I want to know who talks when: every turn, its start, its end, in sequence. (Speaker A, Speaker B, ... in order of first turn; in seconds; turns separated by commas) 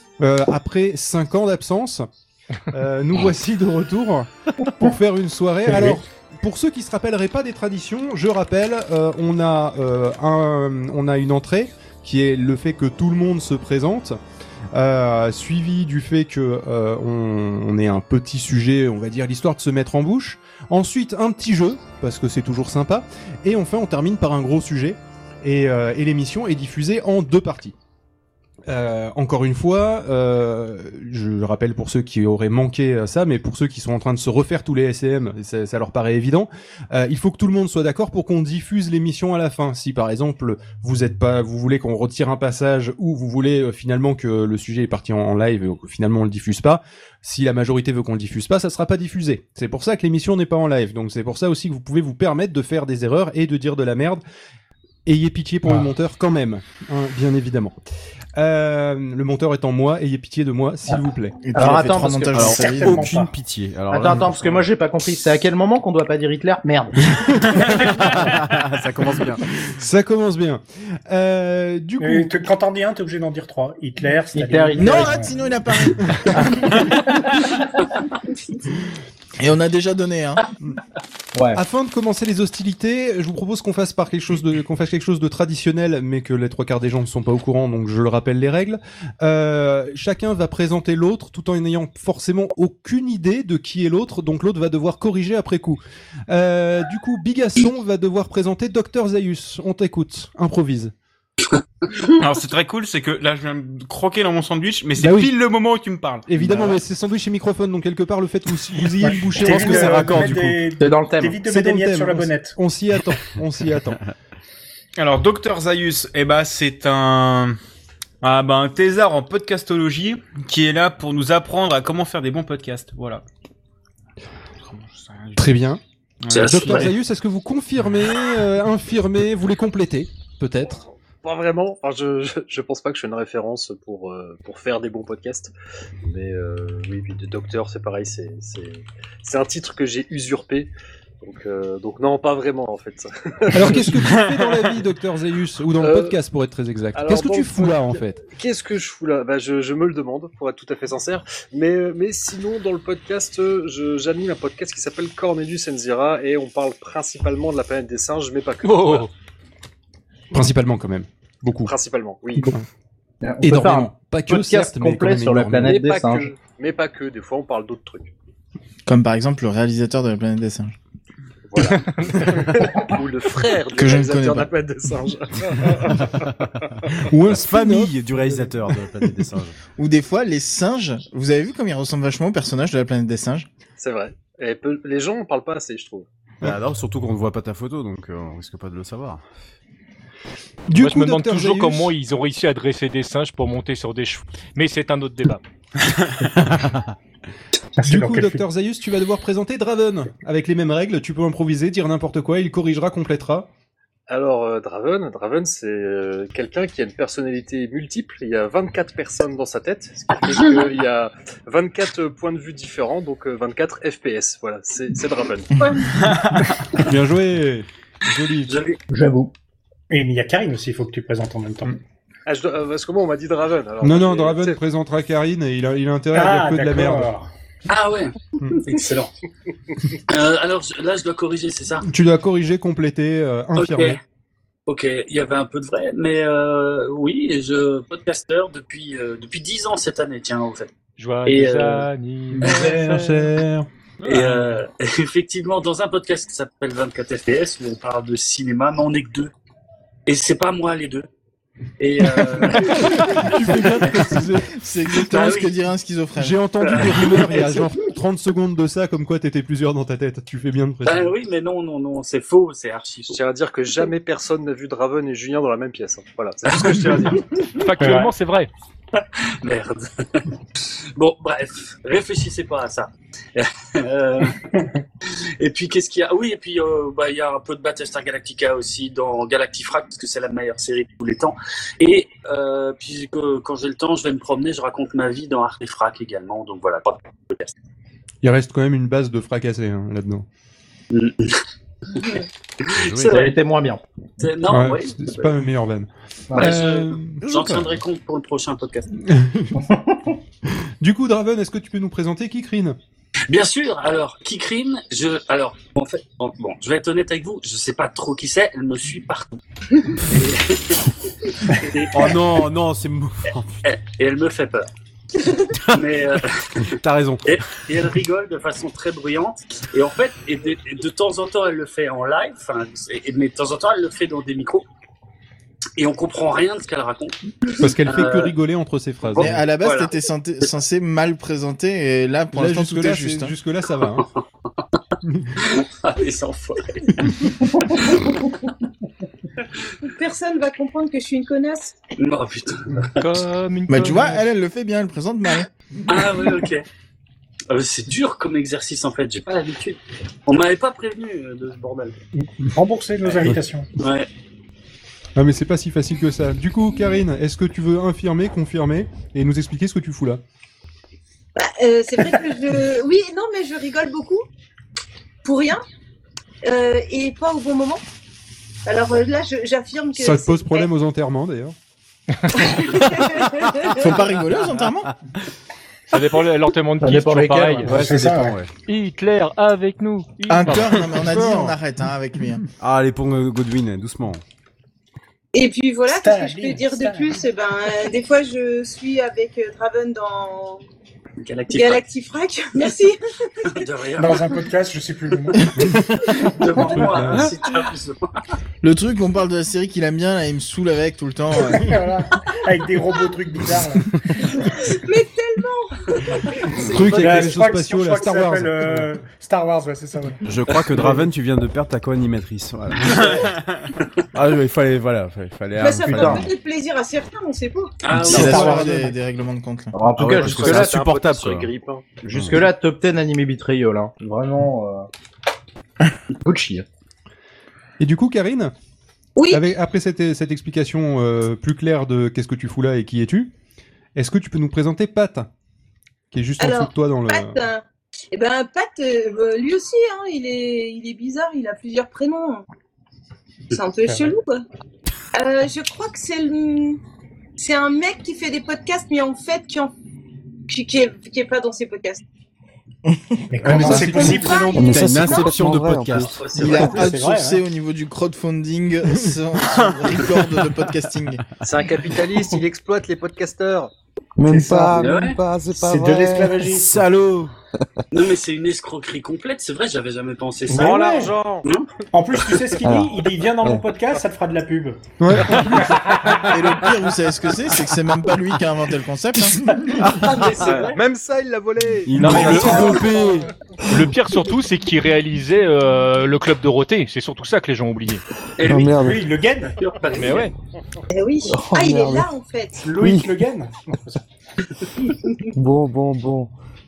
Speaker A: 0.2-2.1, Speaker A: 2.7-14.2, Speaker B: 5.7-6.0, Speaker A: 14.7-27.7, Speaker A: 28.7-54.2, Speaker A: 55.1-57.8, Speaker A: 58.4-61.4, Speaker C: 61.4-63.1, Speaker D: 61.5-62.8, Speaker E: 62.4-64.7, Speaker B: 62.5-63.3, Speaker D: 63.9-67.0, Speaker E: 67.7-69.4, Speaker A: 69.6-72.4, Speaker B: 72.0-75.3, Speaker D: 74.3-75.2, Speaker C: 74.8-76.4, Speaker D: 76.3-77.0, Speaker C: 79.4-80.5, Speaker D: 81.3-81.6, Speaker A: 81.5-100.9, Speaker F: 102.0-106.3, Speaker A: 106.3-110.6, Speaker E: 106.4-106.7, Speaker B: 109.4-112.6, Speaker E: 109.5-110.5, Speaker D: 110.8-111.4, Speaker A: 111.5-114.0, Speaker F: 115.0-117.6, Speaker F: 118.2-123.2, Speaker F: 124.7-125.5, Speaker A: 125.3-125.8, Speaker F: 126.2-126.9, Speaker G: 126.3-126.9, Speaker A: 126.4-130.8, Speaker H: 130.8-135.5, Speaker H: 136.0-144.6, Speaker A: 143.5-148.2, Speaker H: 145.8-146.2, Speaker H: 146.9-159.1, Speaker I: 158.6-159.1, Speaker A: 160.3-161.8, Speaker H: 161.6-162.5, Speaker A: 162.4-162.6, Speaker D: 163.2-166.3, Speaker A: 163.4-165.8, Speaker H: 165.6-168.1, Speaker C: 168.9-170.8, Speaker H: 171.5-176.3, Speaker C: 173.7-174.5, Speaker A: 176.9-177.9, Speaker E: 177.3-179.6, Speaker C: 179.8-183.5, Speaker H: 183.8-186.1, Speaker E: 186.4-189.2, Speaker A: 190.7-191.9, Speaker I: 190.8-195.4, Speaker E: 196.6-196.9, Speaker B: 197.8-198.4, Speaker A: 197.8-203.5, Speaker H: 204.1-215.5, Speaker J: 215.6-216.0, Speaker F: 216.0-216.6, Speaker A: 216.8-218.5, Speaker G: 218.5-218.8, Speaker D: 218.9-219.3, Speaker B: 219.9-221.7, Speaker H: 222.3-224.6, Speaker A: 223.8-227.1, Speaker B: 226.1-227.3, Speaker G: 227.7-229.1, Speaker G: 230.1-231.9, Speaker A: 231.8-234.0, Speaker G: 233.6-234.0, Speaker G: 234.7-240.7, Speaker I: 241.0-243.2, Speaker G: 241.2-241.9, Speaker F: 242.3-244.6, Speaker G: 244.1-249.3, Speaker G: 250.1-251.1, Speaker G: 251.8-253.3, Speaker A: 252.4-254.6, Speaker C: 254.6-256.4, Speaker G: 255.0-255.5, Speaker A: 256.2-261.1, Speaker G: 256.8-257.6, Speaker G: 260.9-263.2, Speaker H: 263.1-267.2, Speaker G: 266.5-267.2, Speaker I: 267.5-268.5, Speaker B: 267.8-268.1, Speaker G: 269.0-274.4, Speaker G: 275.4-287.5, Speaker A: 288.2-290.2, Speaker G: 290.9-291.4, Speaker G: 292.0-293.4, Speaker E: 292.8-293.2, Speaker D: 292.9-293.8, Speaker G: 294.2-295.4, Speaker A: 294.5-297.3, Speaker D: 296.3-296.6, Speaker G: 296.3-298.9, Speaker E: 297.2-297.8, Speaker A: 299.0-299.6, Speaker D: 299.8-300.1, Speaker A: 300.8-302.8, Speaker G: 303.3-312.2, Speaker E: 311.9-313.6, Speaker G: 313.6-314.7, Speaker G: 315.7-324.7, Speaker E: 316.7-317.3, Speaker G: 325.8-328.4, Speaker A: 327.6-329.4, Speaker G: 329.0-329.9, Speaker C: 329.2-333.3, Speaker A: 332.3-334.1, Speaker A: 335.0-335.3, Speaker G: 335.4-338.3, Speaker J: 339.8-341.8, Speaker G: 342.0-343.2, Speaker I: 342.9-344.2, Speaker C: 343.7-345.5, Speaker G: 345.9-346.6, Speaker G: 347.5-352.0, Speaker B: 352.2-353.7, Speaker G: 353.1-354.1, Speaker A: 355.2-360.2, Speaker J: 361.4-364.3, Speaker J: 365.2-365.6, Speaker J: 366.4-367.8, Speaker J: 368.7-370.7, Speaker A: 370.0-371.6, Speaker J: 372.4-374.0, Speaker C: 373.6-374.9, Speaker I: 375.9-377.9, Speaker D: 376.8-378.2, Speaker E: 377.6-378.5, Speaker B: 377.7-378.4, Speaker I: 378.6-381.1, Speaker C: 380.3-382.4, Speaker A: 381.1-381.6, Speaker E: 382.6-384.2, Speaker J: 385.3-390.6, Speaker B: 385.9-387.2, Speaker G: 391.2-391.8, Speaker J: 391.5-393.5, Speaker G: 393.5-394.4, Speaker B: 394.0-395.7, Speaker G: 396.0-398.1, Speaker A: 396.6-397.3, Speaker C: 398.6-401.8, Speaker B: 401.6-403.9, Speaker J: 404.3-407.2, Speaker A: 406.6-408.9, Speaker B: 406.9-410.2, Speaker E: 410.2-413.2, Speaker E: 414.1-416.3, Speaker J: 415.6-417.7, Speaker D: 415.9-416.3, Speaker G: 417.8-418.6, Speaker C: 418.0-419.8, Speaker D: 418.1-418.5, Speaker B: 418.1-418.8, Speaker A: 418.1-418.7, Speaker D: 419.7-420.9, Speaker E: 419.9-421.5, Speaker H: 420.0-421.9, Speaker D: 422.0-424.9, Speaker E: 422.1-422.5, Speaker D: 426.2-426.6, Speaker A: 427.8-428.5, Speaker J: 429.2-429.4, Speaker A: 429.3-433.3, Speaker A: 433.9-435.3, Speaker A: 436.1-437.4, Speaker J: 436.4-442.4, Speaker J: 443.5-444.4, Speaker J: 445.1-446.8, Speaker J: 447.4-449.7, Speaker J: 450.5-452.0, Speaker C: 452.9-454.4, Speaker B: 453.3-454.8, Speaker E: 453.6-454.0, Speaker J: 453.6-455.2, Speaker K: 454.5-456.2, Speaker E: 454.6-456.2, Speaker G: 456.2-456.8, Speaker C: 456.3-461.2, Speaker B: 456.4-457.4, Speaker H: 461.4-463.7, Speaker K: 464.2-466.8, Speaker B: 464.3-464.9, Speaker G: 464.8-465.2, Speaker B: 465.6-466.8, Speaker E: 466.5-467.3, Speaker G: 467.9-471.7, Speaker B: 470.5-471.2, Speaker H: 470.5-471.5, Speaker B: 471.9-474.8, Speaker K: 472.6-473.6, Speaker A: 475.0-475.8, Speaker B: 475.4-476.4, Speaker C: 476.1-479.6, Speaker B: 479.2-479.9, Speaker E: 479.9-480.1, Speaker G: 479.9-480.8, Speaker H: 480.5-481.6, Speaker E: 481.9-483.3, Speaker A: 481.9-483.0, Speaker I: 482.0-482.9, Speaker B: 482.1-482.7, Speaker I: 483.7-488.0, Speaker G: 488.4-488.9, Speaker K: 488.5-489.1, Speaker B: 488.7-489.6, Speaker G: 489.6-490.3, Speaker I: 489.9-490.3, Speaker J: 490.9-492.7, Speaker K: 491.3-492.1, Speaker B: 492.6-494.0, Speaker K: 492.7-493.1, Speaker K: 495.4-496.3